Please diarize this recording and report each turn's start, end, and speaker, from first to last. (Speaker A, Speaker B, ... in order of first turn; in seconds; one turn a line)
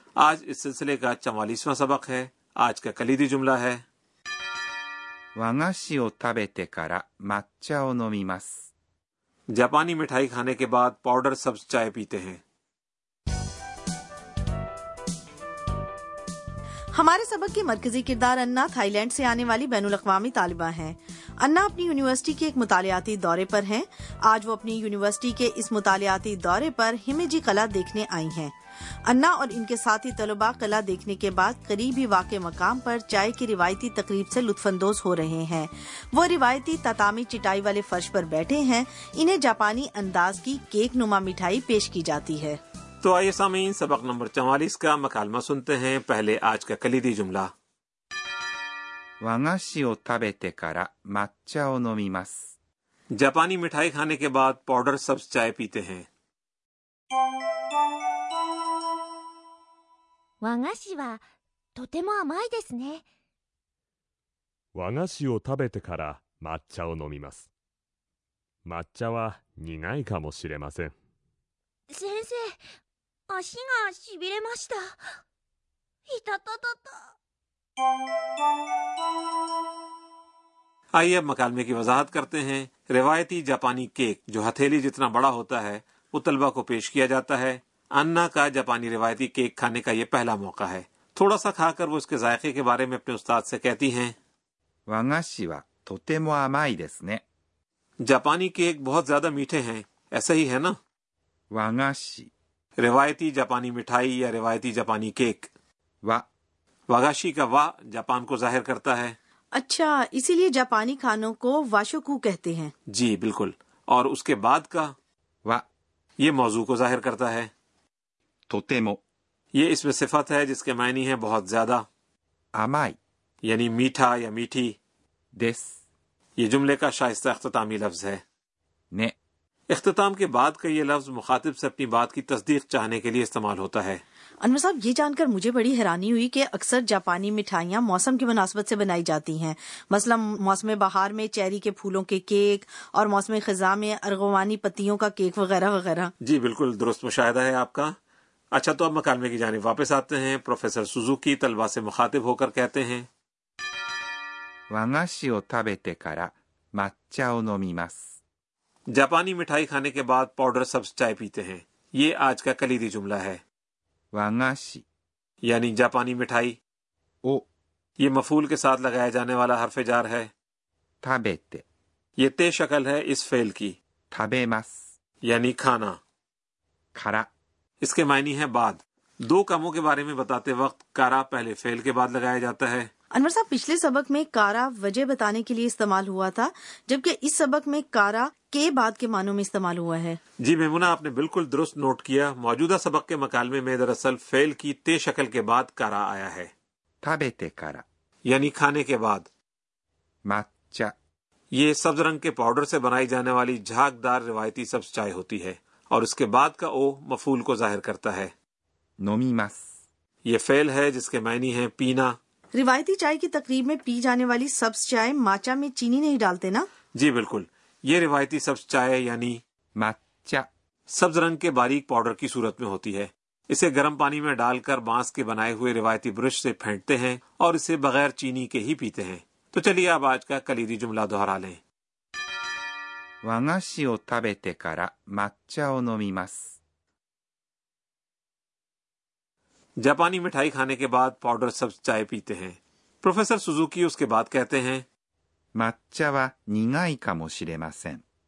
Speaker A: 0.2-3.8
Speaker B: 5.4-8.5
Speaker A: 9.5-12.4
Speaker C: 16.9-28.5
Speaker C: 29.1-42.6
Speaker A: 43.0-47.5
Speaker B: 49.2-52.4
Speaker A: 53.1-56.1
Speaker D: 60.4-61.2
Speaker D: 61.8-63.0
Speaker E: 64.8-67.5
Speaker E: 68.7-70.9
Speaker D: 71.9-72.6
Speaker D: 73.3-75.2
Speaker D: 76.1-77.1
Speaker A: 80.9-94.2
Speaker B: 94.9-97.2
Speaker A: 98.0-100.8
Speaker B: 101.5-102.3
Speaker A: 102.8-105.5
Speaker A: 106.9-109.2
Speaker C: 109.5-112.7
Speaker A: 112.9-114.9
Speaker A: 116.2-117.5
Speaker B: 118.5-119.0
Speaker A: 119.5-121.8
Speaker B: 122.6-123.0
Speaker A: 123.4-124.8
Speaker B: 125.4-125.8
Speaker A: 126.4-128.2
Speaker A: 129.7-134.0
Speaker C: 134.4-146.1
Speaker A: 146.2-147.9
Speaker A: 148.5-153.1
Speaker B: 154.7-158.0
Speaker A: 158.9-163.4
Speaker B: 164.1-164.8
Speaker A: 165.4-166.6
Speaker A: 168.0-170.3
Speaker B: 171.0-171.6
Speaker A: 172.2-173.8
Speaker B: 174.1-174.8
Speaker A: 175.2-176.0
Speaker B: 176.9-177.3
Speaker A: 177.8-182.9
Speaker C: 183.1-190.2
Speaker A: 190.4-196.5
Speaker B: 197.0-197.8
Speaker A: 198.3-199.3
Speaker B: 200.3-200.9
Speaker A: 201.5-208.3
Speaker B: 209.0-209.7
Speaker A: 210.3-212.2
Speaker C: 212.5-216.7
Speaker A: 217.0-219.4
Speaker B: 219.8-220.5
Speaker A: 220.9-231.6
Speaker B: 233.2-236.5
Speaker A: 239.8-244.8
Speaker B: 245.6-248.0